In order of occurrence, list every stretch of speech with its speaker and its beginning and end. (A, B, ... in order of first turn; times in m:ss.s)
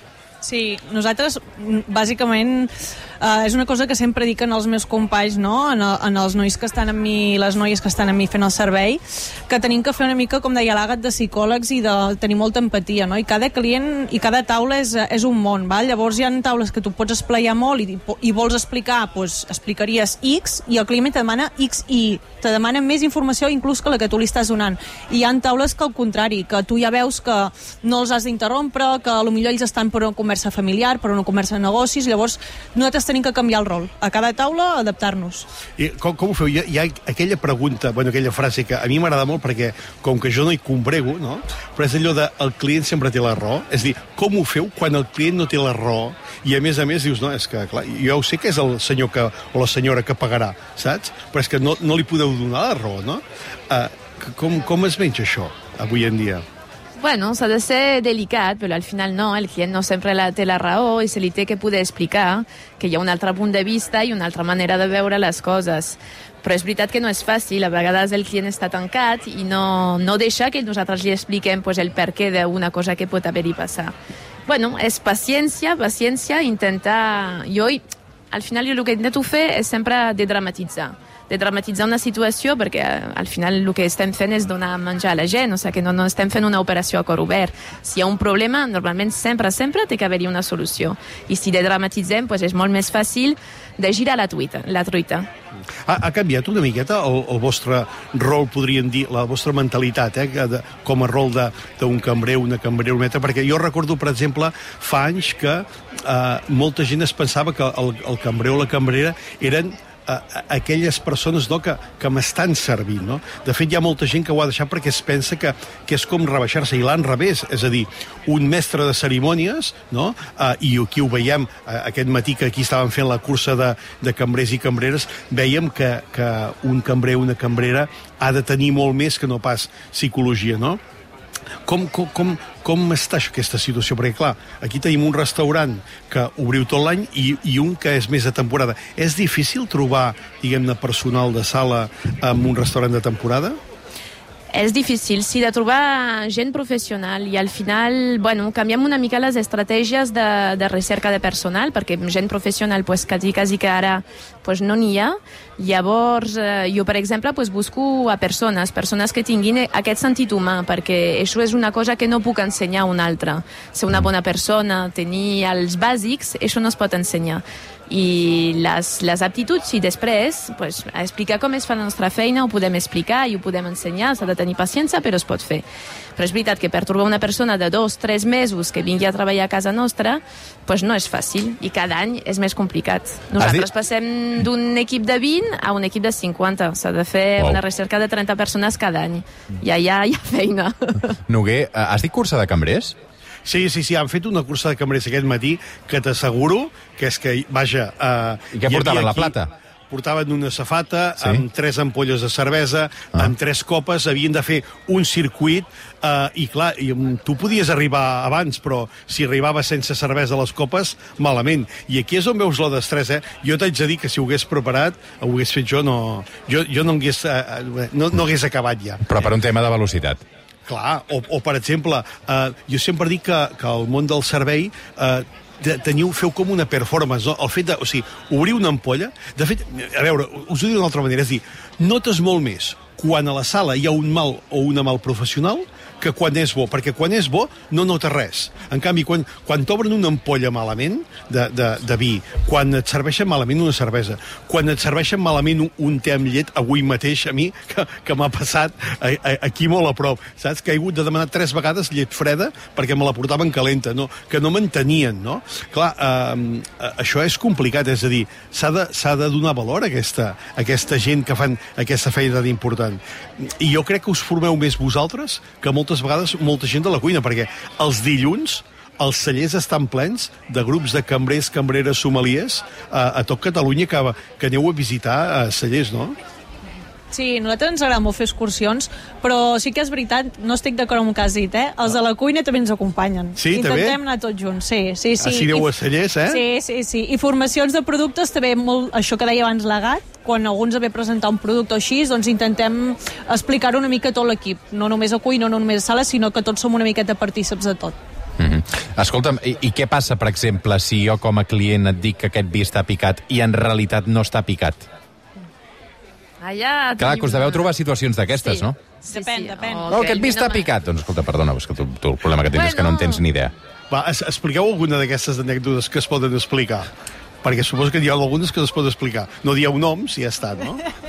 0:00.4-0:35.5 A
0:35.8-0:56.4 B
0:57.0-1:13.9 C
1:14.5-1:35.3 C
1:35.8-2:10.8 B
2:11.6-2:23.6 B
2:24.5-2:55.6 C
2:56.2-3:11.2 C
3:03.3-3:03.7 D
3:11.3-3:12.9 D
3:13.4-3:19.4 B
3:18.5-3:19.5 D
3:19.9-3:39.2 B
3:39.0-3:40.2 D
3:40.7-4:36.1 B
4:37.1-4:45.7 A
4:43.4-4:44.0 B
4:45.2-4:46.4 B
4:46.3-4:58.0 A
4:58.4-5:04.8 D
5:06.4-5:10.7 C
5:07.0-5:08.8 D
5:09.0-5:09.9 A
5:09.9-5:13.5 D
5:12.4-5:13.2 C
5:13.9-5:16.9 B
5:17.4-5:20.8 B